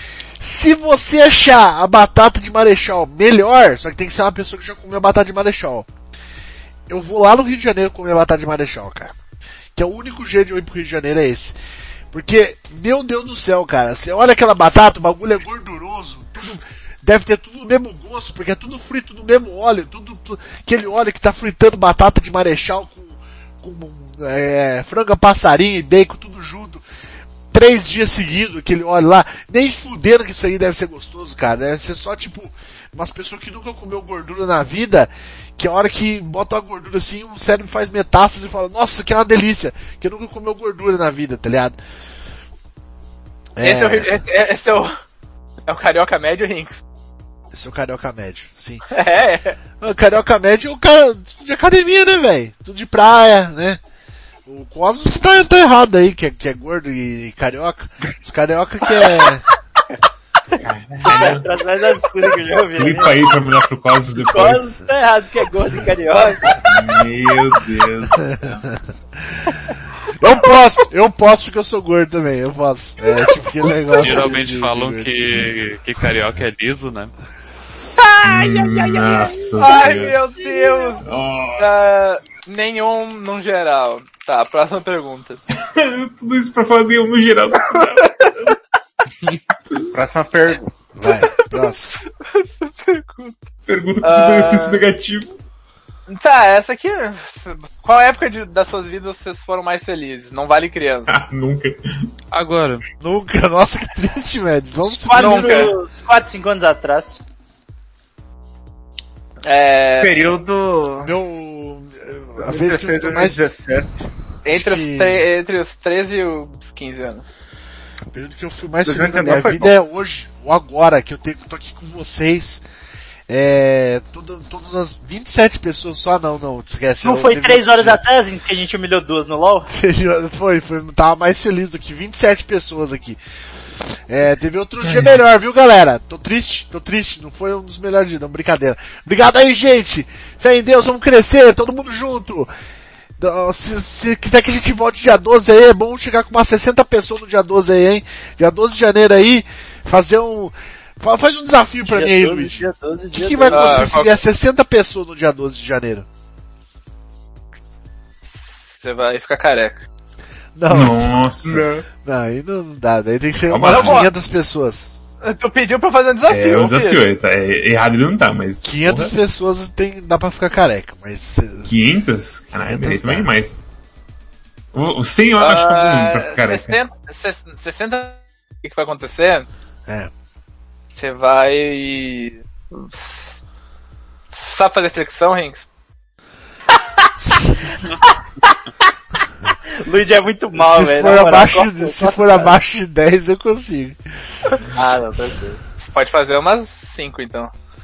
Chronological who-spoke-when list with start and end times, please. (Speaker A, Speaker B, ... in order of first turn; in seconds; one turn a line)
Speaker A: 0.4-5.9
Speaker A: 6.9-9.1
Speaker A: 9.8-11.6
Speaker A: 12.1-26.8
Speaker A: 27.5-41.8
Speaker A: 43.6-44.1
Speaker B: 43.6-44.9
Speaker B: 45.7-46.8
Speaker A: 47.5-48.8
Speaker B: 48.9-49.6
Speaker A: 49.8-53.8
Speaker A: 54.5-59.5
Speaker C: 60.6-61.5
Speaker D: 61.0-63.2
Speaker C: 62.8-64.8
Speaker D: 64.2-66.5
Speaker C: 66.6-68.6
Speaker A: 68.2-68.8
Speaker A: 70.2-75.1
Speaker E: 74.0-77.1
Speaker B: 78.0-81.0
Speaker C: 78.2-80.2
Speaker C: 81.0-81.9
Speaker B: 81.6-85.4
Speaker C: 85.5-88.6
Speaker B: 87.7-88.3
Speaker F: 89.9-90.7
Speaker A: 91.0-91.9
Speaker B: 92.2-93.5
Speaker C: 93.7-95.3
Speaker B: 94.0-94.8
Speaker B: 96.1-101.1
Speaker C: 101.1-102.1
Speaker E: 102.3-102.8
Speaker A: 103.0-105.8
Speaker D: 105.1-107.2
Speaker B: 105.1-105.7
Speaker B: 109.4-110.2
Speaker F: 110.0-111.1
Speaker A: 111.0-113.5
Speaker F: 112.4-114.0
Speaker B: 114.5-117.2
Speaker A: 114.5-115.3
Speaker A: 118.1-122.6
Speaker F: 118.8-119.8
Speaker A: 123.3-128.0
Speaker D: 127.0-129.7
Speaker A: 129.7-133.2
Speaker A: 133.8-142.5
Speaker C: 134.8-135.1
Speaker A: 143.2-156.1
Speaker D: 151.9-154.0
Speaker B: 153.5-154.2
Speaker B: 158.4-159.9
Speaker A: 160.6-161.1
Speaker C: 160.7-161.7
Speaker F: 161.4-161.9
Speaker A: 162.0-165.0
Speaker C: 163.4-164.1
Speaker B: 163.7-164.1
Speaker B: 165.2-167.0
Speaker C: 166.3-169.1
Speaker A: 168.6-171.8
Speaker C: 171.7-173.6
Speaker A: 172.5-173.3
Speaker C: 174.7-176.8
Speaker B: 175.4-179.5
Speaker B: 180.9-183.4
Speaker B: 184.3-185.7
Speaker A: 187.3-187.5
Speaker D: 189.8-192.6
Speaker A: 190.5-194.0
Speaker D: 194.7-195.6
Speaker B: 195.8-197.5